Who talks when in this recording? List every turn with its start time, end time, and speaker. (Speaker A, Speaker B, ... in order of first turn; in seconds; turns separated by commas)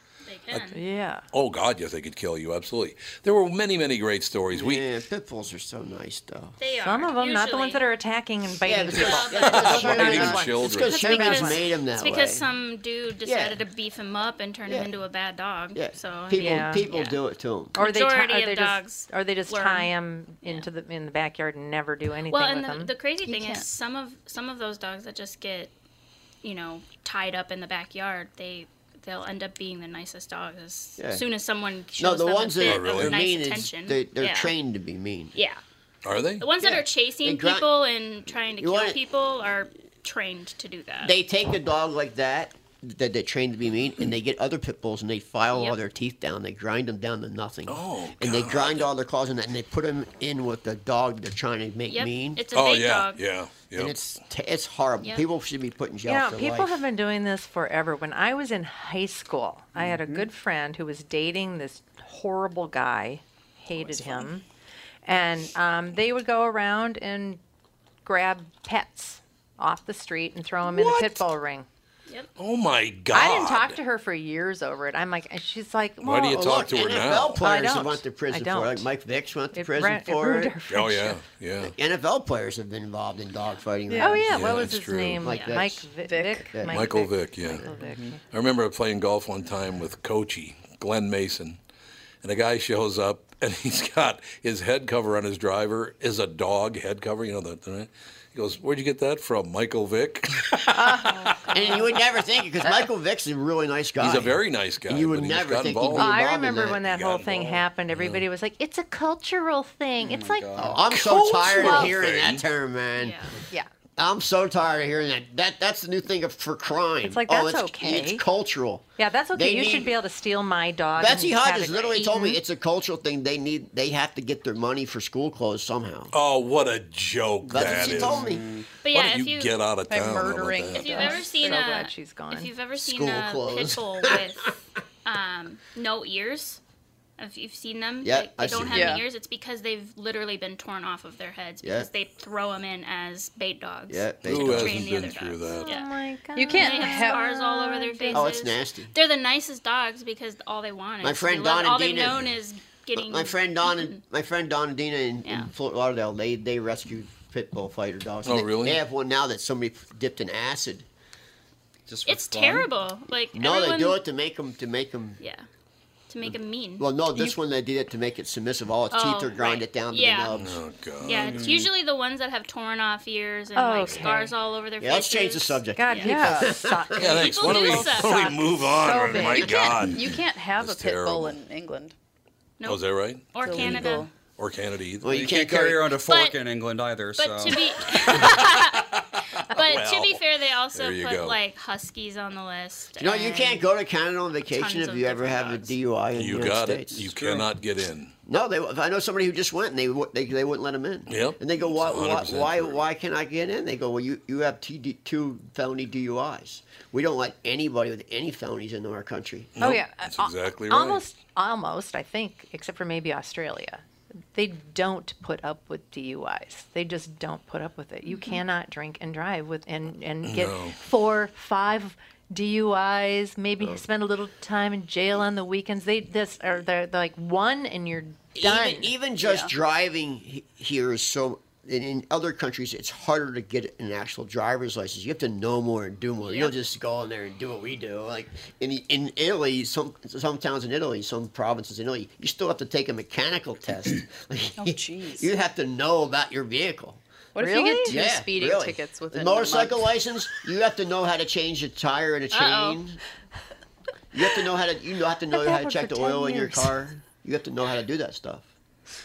Speaker A: 0.3-0.8, Speaker B: 0.7-1.2, Speaker C: 1.3-4.8, Speaker D: 4.5-6.6, Speaker A: 6.6-7.8, Speaker B: 6.8-11.6, Speaker D: 8.7-12.5, Speaker A: 8.9-9.6, Speaker C: 9.4-11.0, Speaker A: 10.8-17.2, Speaker D: 13.2-13.6, Speaker D: 15.7-17.8, Speaker B: 16.4-16.9, Speaker A: 17.8-19.9, Speaker B: 17.8-22.9, Speaker A: 20.4-20.7, Speaker A: 22.3-25.7, Speaker E: 23.2-23.7, Speaker A: 26.4-34.5, Speaker D: 31.0-31.3, Speaker D: 32.0-35.3, Speaker C: 32.6-33.2, Speaker A: 35.4-35.6, Speaker C: 36.0-36.5, Speaker A: 36.4-41.2, Speaker D: 36.6-37.7, Speaker D: 38.6-39.0, Speaker D: 41.0-52.4, Speaker A: 45.5-45.8, Speaker C: 47.7-48.9, Speaker A: 51.9-53.2, Speaker C: 52.5-54.0, Speaker D: 53.7-56.8, Speaker A: 55.0-55.3, Speaker B: 56.1-64.4, Speaker F: 59.8-60.2, Speaker B: 65.1-67.4, Speaker B: 68.0-71.7, Speaker C: 70.7-71.2, Speaker C: 72.4-73.8, Speaker B: 73.1-76.6, Speaker C: 76.0-77.4, Speaker D: 76.3-80.6, Speaker B: 77.4-78.9, Speaker B: 79.5-81.2, Speaker C: 80.7-81.7, Speaker D: 81.6-85.9, Speaker E: 83.9-84.2, Speaker B: 83.9-88.2, Speaker C: 84.3-85.3, Speaker A: 85.3-85.6, Speaker E: 86.0-86.6, Speaker D: 86.5-87.7, Speaker C: 86.7-87.7, Speaker F: 87.8-88.1, Speaker C: 88.3-91.6, Speaker C: 92.2-101.3, Speaker B: 100.7-101.9, Speaker D: 101.5-106.8, Speaker C: 104.0-106.1, Speaker B: 106.0-110.7, Speaker C: 106.9-108.2, Speaker F: 110.0-110.8, Speaker D: 110.5-113.2, Speaker C: 110.9-112.4, Speaker B: 111.6-111.9, Speaker A: 113.0-113.3, Speaker D: 114.0-119.9, Speaker B: 117.0-118.2, Speaker B: 119.0-122.4, Speaker D: 121.0-126.1, Speaker A: 122.0-122.2, Speaker C: 126.1-128.3, Speaker F: 127.5-128.7, Speaker D: 127.5-128.5, Speaker A: 128.8-129.6, Speaker C: 128.9-130.9, Speaker E: 129.9-131.9, Speaker A: 130.8-136.6, Speaker B: 130.8-132.5, Speaker D: 132.8-134.3, Speaker A: 137.2-145.9, Speaker D: 138.0-139.0, Speaker E: 138.7-139.1, Speaker D: 141.6-141.9, Speaker D: 143.9-145.0, Speaker C: 144.2-145.7, Speaker B: 145.6-148.3, Speaker E: 146.3-147.4, Speaker A: 146.5-154.0, Speaker D: 148.1-148.9, Speaker D: 151.0-152.3, Speaker D: 152.9-160.9, Speaker A: 155.2-155.5, Speaker C: 158.2-158.8, Speaker F: 161.9-162.7, Speaker A: 162.1-164.0, Speaker D: 163.3-165.2, Speaker A: 165.2-165.5, Speaker A: 166.1-166.9, Speaker D: 166.2-170.6, Speaker A: 168.9-170.4, Speaker C: 170.3-171.4, Speaker F: 171.0-171.7, Speaker A: 171.0-176.2, Speaker B: 173.6-174.3, Speaker D: 174.8-177.1, Speaker B: 175.8-179.8, Speaker E: 176.0-176.5, Speaker A: 177.0-178.8, Speaker C: 177.0-181.4, Speaker E: 179.0-181.9, Speaker A: 182.6-184.1, Speaker C: 182.6-185.3, Speaker E: 183.4-184.1, Speaker D: 185.0-185.9, Speaker F: 185.1-187.7, Speaker A: 186.0-186.4, Speaker A: 187.2-189.0, Speaker C: 188.0-190.2, Speaker A: 189.5-193.6, Speaker C: 190.7-191.4, Speaker D: 193.0-197.1, Speaker A: 194.5-195.8, Speaker C: 196.2-198.1, Speaker F: 197.2-197.5, Speaker D: 198.3-209.5, Speaker C: 201.1-202.8, Speaker C: 209.6-211.0, Speaker B: 209.6-228.9, Speaker C: 220.2-220.8, Speaker D: 228.3-247.0, Speaker E: 229.2-229.5, Speaker E: 244.6-245.3, Speaker E: 247.3-249.9, Speaker B: 247.4-248.0, Speaker D: 247.8-253.0, Speaker A: 252.3-252.8, Speaker D: 254.1-258.5, Speaker B: 255.3-256.8